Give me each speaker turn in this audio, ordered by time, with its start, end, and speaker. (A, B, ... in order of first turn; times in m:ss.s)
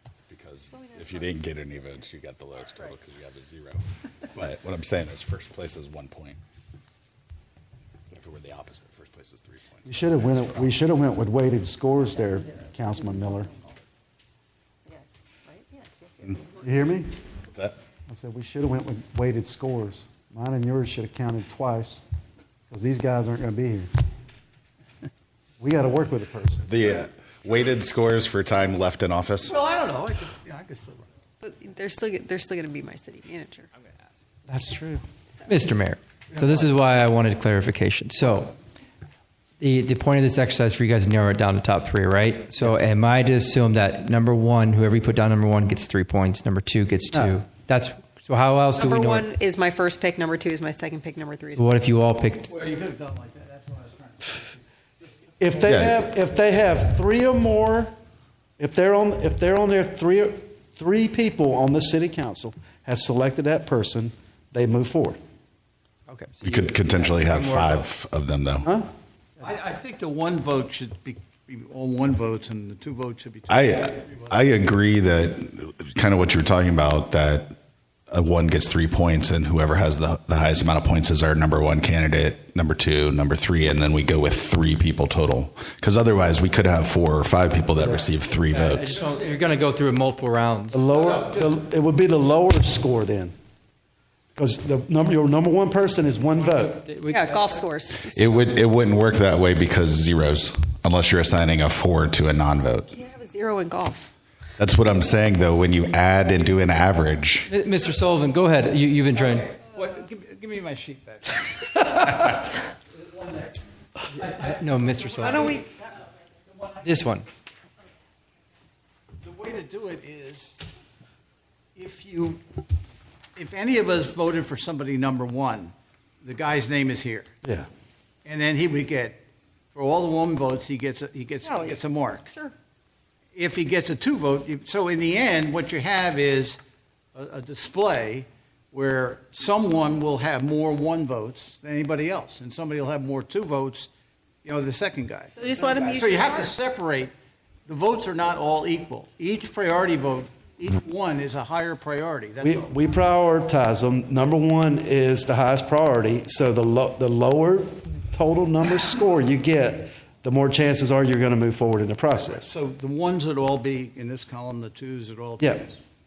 0:00.3-0:03.8 A
0:00.7-0:01.3 B
0:04.3-0:06.4 A
0:08.1-0:10.6 A
0:09.8-0:13.5 C
0:14.9-0:16.6 B
0:16.6-0:17.1 C
0:17.5-0:17.8 A
0:18.1-0:22.0 C
0:22.7-0:23.9 C
0:25.6-0:26.7 C
0:26.7-0:29.6 A
0:29.4-0:31.1 D
0:31.4-0:33.7 B
0:34.5-0:35.0 C
0:35.5-0:38.5 E
0:36.3-0:36.6 C
0:39.6-0:49.3 E
0:48.8-0:51.7 B
0:51.5-0:52.5 E
0:52.5-0:54.6 D
0:55.4-0:57.9 C
0:55.7-0:56.0 A
0:58.6-1:05.2 C
1:06.1-1:07.9 E
1:06.4-1:08.7 A
1:08.6-1:08.9 C
1:09.4-1:14.3 D
1:13.5-1:17.5 A
1:18.1-1:29.0 A
1:28.5-1:30.8 E
1:28.9-1:29.4 D
1:30.7-1:33.3 C
1:34.4-1:36.8 C
1:36.4-1:37.7 E
1:37.1-1:38.3 B
1:38.0-1:42.9 A
1:42.9-1:44.1 B
1:44.6-1:47.5 A
1:47.5-1:49.5 E
1:49.3-1:52.2 D
1:52.9-1:53.6 D
1:54.2-1:55.6 E
1:54.2-1:57.0 D
1:55.2-1:55.6 B
1:56.8-1:57.3 E
1:59.2-2:00.6 D
2:01.8-2:02.4 D
2:03.4-2:07.3 D
2:08.2-2:09.2 D
2:09.7-2:12.3 D
2:11.4-2:12.5 B
2:13.3-2:16.6 D
2:17.1-2:23.9 D
2:24.4-2:27.1 D
2:25.3-2:26.6 B
2:27.7-2:32.7 D
2:32.4-2:42.5 C
2:42.2-2:45.8 D
2:45.4-2:45.6 C